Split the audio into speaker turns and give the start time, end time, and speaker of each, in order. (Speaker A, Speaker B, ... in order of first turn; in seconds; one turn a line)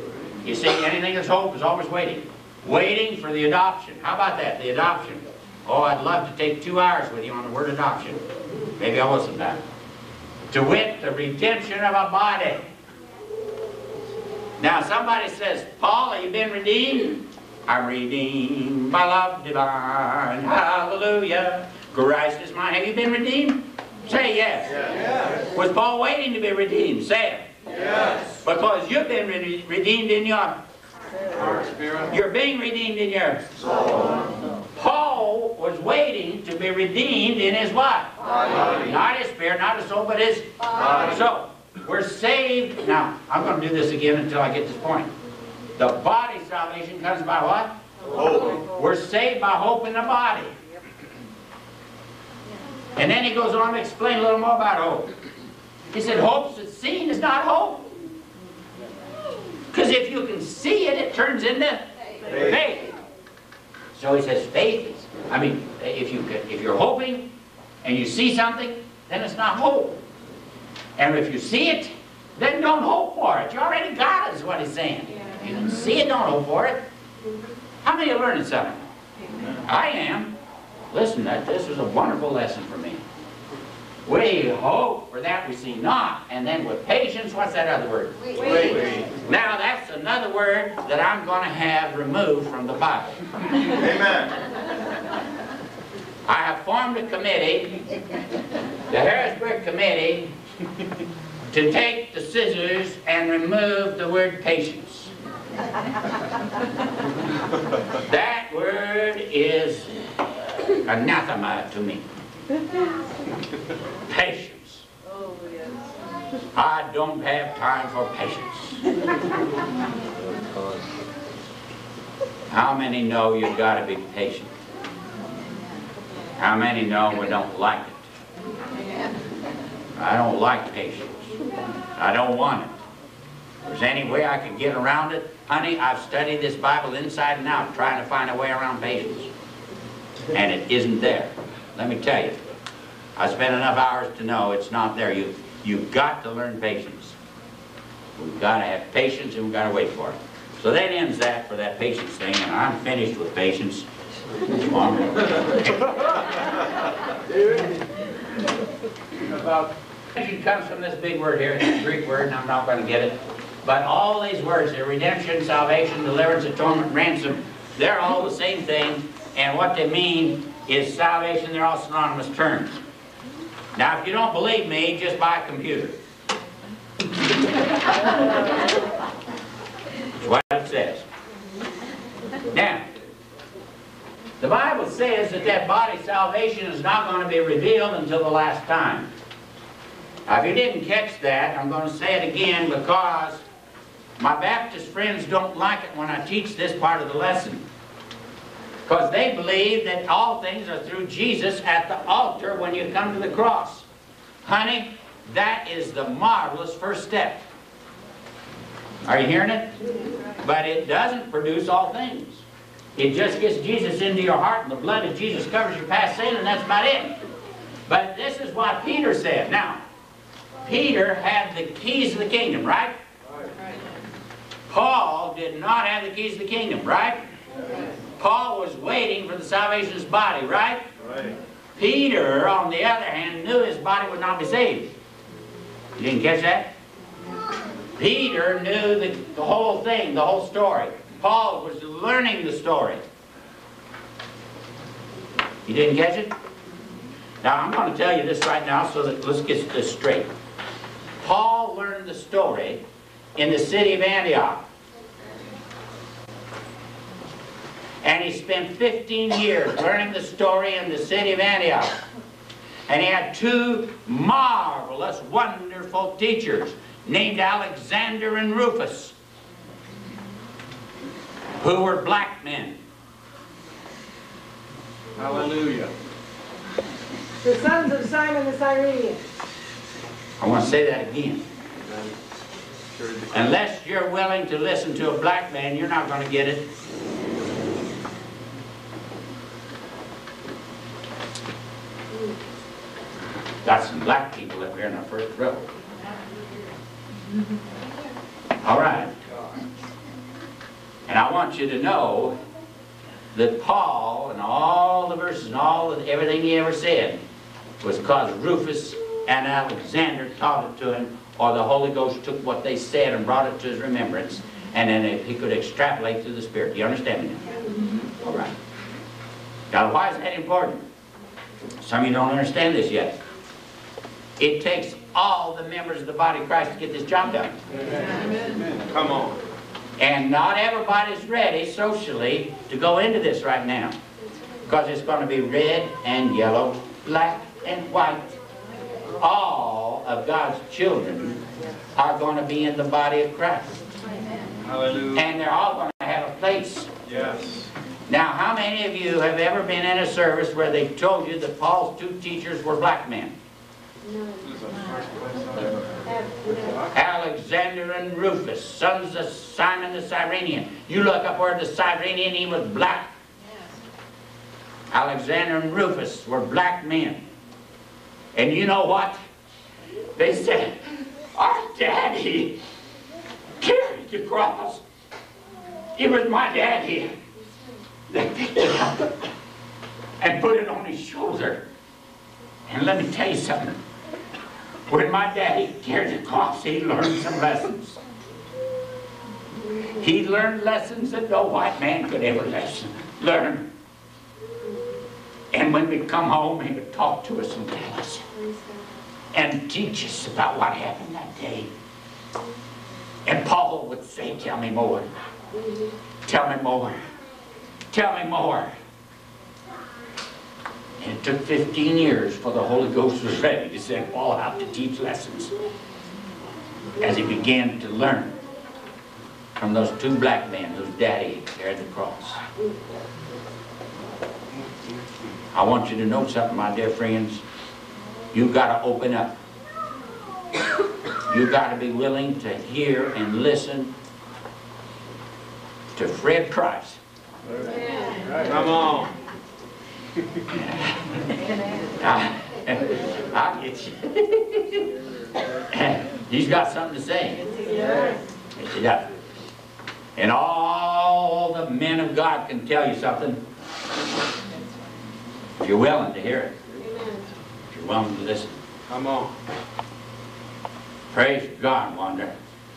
Speaker A: 0.4-8.2
Speaker A: 8.8-9.6
Speaker A: 10.5-12.7
Speaker A: 14.6-24.9
Speaker B: 24.9-25.2
Speaker A: 25.4-27.5
Speaker A: 28.2-30.6
Speaker B: 31.3-32.1
Speaker A: 32.1-33.8
Speaker A: 34.8-45.1
Speaker A: 45.8-50.5
Speaker A: 53.0-55.1
Speaker A: 55.9-57.9
Speaker A: 59.7-62.9
Speaker A: 63.9-67.3
Speaker A: 67.8-70.0
Speaker A: 71.0-76.8
Speaker A: 77.8-78.9
Speaker A: 79.6-80.3
Speaker A: 80.9-83.0
Speaker A: 84.0-88.6
Speaker B: 88.4-89.1
Speaker A: 89.2-93.2
Speaker B: 93.8-94.3
Speaker A: 96.2-97.8
Speaker A: 98.9-100.3
Speaker A: 101.5-105.1
Speaker A: 108.0-110.2
Speaker A: 110.8-112.0
Speaker A: 114.1-114.8
Speaker A: 116.5-118.8
Speaker A: 122.5-124.5
Speaker A: 126.4-128.0
Speaker A: 130.0-131.3
Speaker A: 132.0-132.7
Speaker A: 133.6-139.3
Speaker A: 140.3-142.4
Speaker A: 143.2-147.1
Speaker A: 148.2-153.9
Speaker A: 154.5-155.9
Speaker A: 160.1-172.8
Speaker A: 173.8-176.0
Speaker A: 180.2-181.0
Speaker A: 182.5-182.9
Speaker A: 184.4-189.1
Speaker A: 190.3-193.4
Speaker A: 194.2-197.6
Speaker A: 198.8-203.9
Speaker A: 204.4-207.4
Speaker A: 209.1-209.7
Speaker A: 210.4-212.4
Speaker A: 213.0-217.1
Speaker A: 217.9-219.8
Speaker A: 220.7-223.0
Speaker A: 224.7-227.2
Speaker A: 228.2-230.8
Speaker B: 231.0-231.3
Speaker A: 231.8-234.9
Speaker A: 236.0-236.7
Speaker A: 238.0-243.0
Speaker A: 245.7-246.3
Speaker A: 247.4-250.3
Speaker A: 251.2-252.8
Speaker A: 253.3-254.6
Speaker A: 258.0-262.0
Speaker A: 262.9-269.1
Speaker A: 271.6-272.8
Speaker B: 275.2-275.9
Speaker C: 277.4-279.2
Speaker A: 280.4-281.4
Speaker B: 283.0-283.3
Speaker A: 283.3-286.6
Speaker A: 293.6-295.7
Speaker A: 298.6-299.1
Speaker A: 301.1-302.4
Speaker A: 303.3-307.2
Speaker A: 307.8-317.5
Speaker A: 318.2-318.5
Speaker A: 319.7-320.9
Speaker A: 321.8-323.2
Speaker A: 324.4-327.6
Speaker B: 327.7-329.4
Speaker A: 330.0-334.0
Speaker A: 334.6-338.3
Speaker A: 339.2-341.4
Speaker A: 342.0-343.8
Speaker B: 344.6-345.2
Speaker A: 345.1-346.9
Speaker B: 347.0-347.7
Speaker A: 348.1-353.4
Speaker C: 354.0-354.4
Speaker B: 354.4-356.0
Speaker C: 356.1-356.8
Speaker A: 356.9-363.1
Speaker A: 364.9-367.2
Speaker A: 368.3-369.2
Speaker A: 370.1-372.6
Speaker A: 373.6-374.8
Speaker A: 376.0-377.1
Speaker A: 378.1-379.1
Speaker A: 380.2-381.6
Speaker A: 382.7-383.8
Speaker A: 384.9-388.0
Speaker A: 390.0-393.7
Speaker A: 395.5-398.2
Speaker A: 399.3-401.7
Speaker A: 403.2-405.1
Speaker C: 405.6-405.9
Speaker A: 406.2-407.0
Speaker A: 407.9-408.7
Speaker A: 411.0-415.5
Speaker A: 417.0-418.4
Speaker A: 419.6-422.4
Speaker A: 425.5-427.4
Speaker A: 428.3-429.3
Speaker A: 431.3-433.9
Speaker A: 435.9-437.0
Speaker B: 438.4-439.1
Speaker A: 440.5-440.9
Speaker A: 442.0-444.8
Speaker A: 445.7-447.4
Speaker C: 447.6-448.2
Speaker A: 448.6-449.1
Speaker A: 450.1-453.4
Speaker A: 455.6-456.6
Speaker C: 456.8-457.3
Speaker A: 457.7-458.6
Speaker B: 458.9-459.3
Speaker A: 461.1-462.3